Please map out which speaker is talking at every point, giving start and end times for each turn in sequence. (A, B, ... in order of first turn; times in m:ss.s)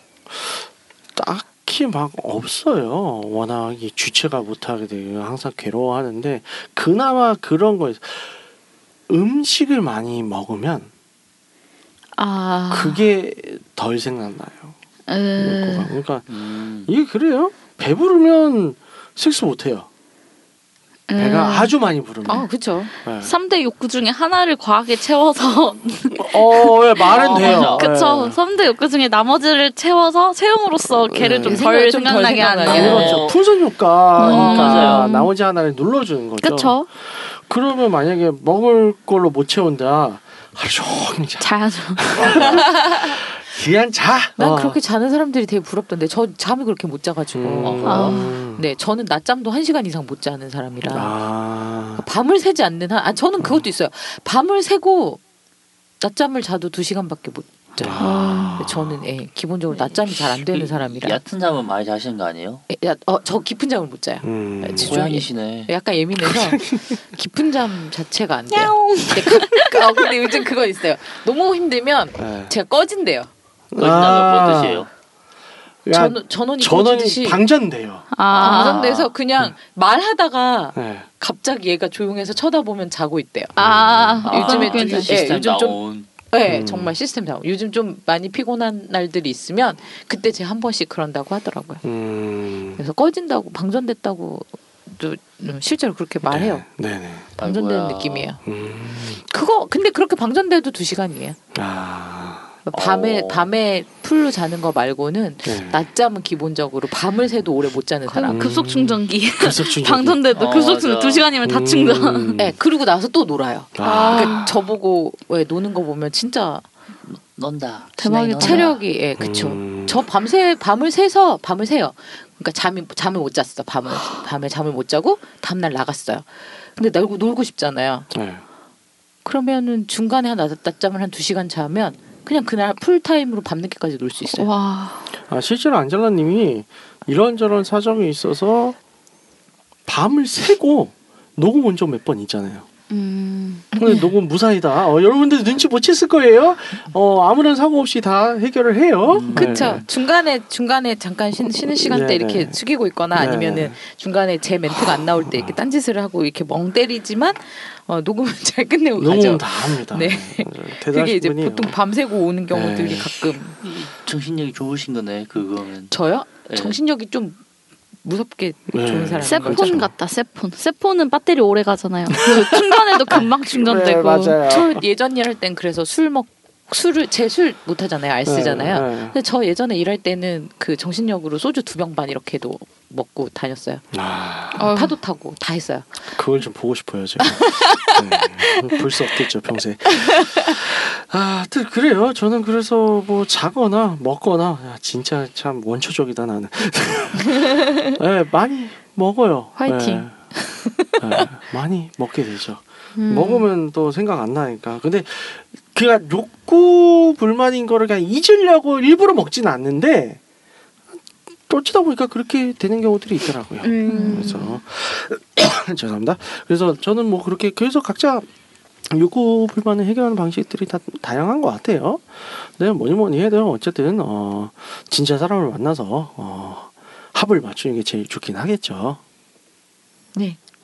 0:00.3-0:08.4 A
0:09.1-0:10.9 A
0:12.2-0:13.0 B
0:12.7-0:14.7 A
0:15.1-0:15.9 B
0:15.4-0:19.9 A
0:16.3-0:16.9 C
0:21.1-0:21.7 B
0:21.2-0:22.5 A
0:22.3-0:22.9 D
0:23.0-0:23.3 A
0:23.2-0:33.2 B
0:26.2-0:28.4 A
0:27.0-0:27.9 C
0:30.8-0:31.7 A
0:31.4-0:33.2 D
0:32.6-0:44.8 A
0:32.7-0:33.4 C
0:34.2-0:35.1 C
0:34.2-0:35.3 B
0:36.4-0:36.9 B
0:41.4-0:42.2 B
0:42.2-0:42.7 C
0:42.3-0:43.1 D
0:44.4-0:51.2 D
0:47.3-0:48.6 A
0:47.6-0:48.1 C
0:47.9-0:48.4 B
0:50.8-0:52.0 A
0:52.0-0:55.2 D
0:56.0-1:01.2 D
0:57.8-0:59.0 A
0:58.0-0:58.6 B
1:00.3-1:02.6 C
1:02.7-1:13.3 D
1:04.2-1:05.0 A
1:04.8-1:05.7 C
1:06.2-1:07.0 A
1:08.5-1:09.8 B
1:12.2-1:12.5 A
1:13.7-1:14.9 A
1:13.8-1:14.9 C
1:15.8-1:18.1 A
1:15.9-1:17.4 D
1:18.1-1:18.9 B
1:18.3-1:19.1 C
1:18.3-1:23.6 D
1:20.8-1:21.1 A
1:23.6-1:25.1 B
1:23.6-1:24.3 A
1:24.2-1:26.1 C
1:24.3-1:25.8 D
1:26.3-1:31.8 D
1:26.5-1:26.9 A
1:31.8-1:32.8 A
1:32.8-1:36.6 D
1:36.3-1:37.3 A
1:37.4-1:38.4 D
1:37.4-1:38.3 C
1:38.4-1:39.2 A
1:39.2-1:41.4 D
1:41.5-1:42.5 A
1:42.7-1:48.5 D
1:42.7-1:43.5 C
1:45.4-1:45.8 A
1:48.1-1:52.4 B
1:48.3-1:50.2 A
1:50.3-1:51.3 C
1:51.4-1:52.6 A
1:52.4-1:56.7 D
1:53.8-1:54.5 A
1:53.8-1:54.5 B
1:57.3-1:58.8 C
1:58.0-1:58.7 B
1:58.0-2:08.1 D
1:59.2-2:00.0 A
2:08.1-2:08.4 A
2:09.2-2:14.5 D
2:14.3-2:15.1 B
2:15.1-2:18.8 A
2:19.9-2:22.6 A
2:22.9-2:23.7 B
2:23.7-2:24.0 D
2:23.8-2:29.8 A
2:29.1-2:29.6 B
2:29.3-2:43.6 D
2:31.7-2:32.6 A
2:33.1-2:33.8 A
2:34.8-2:35.6 A
2:39.0-2:41.8 A
2:42.5-2:43.1 A
2:43.6-2:46.8 C
2:45.9-2:47.4 D
2:48.0-2:49.8 D
2:48.7-2:49.9 A
2:49.2-2:54.4 B
2:52.2-2:54.7 A
2:54.4-3:03.8 D
2:58.3-2:59.2 A
3:03.9-3:04.7 A
3:04.5-3:06.0 D
3:04.6-3:05.0 B
3:06.1-3:20.1 A
3:07.3-3:08.8 D
3:19.6-3:21.2 D
3:21.0-3:30.2 A
3:23.0-3:23.5 B
3:31.5-3:38.3 A
3:33.6-3:34.4 D
3:33.9-3:34.6 B
3:38.9-3:49.0 A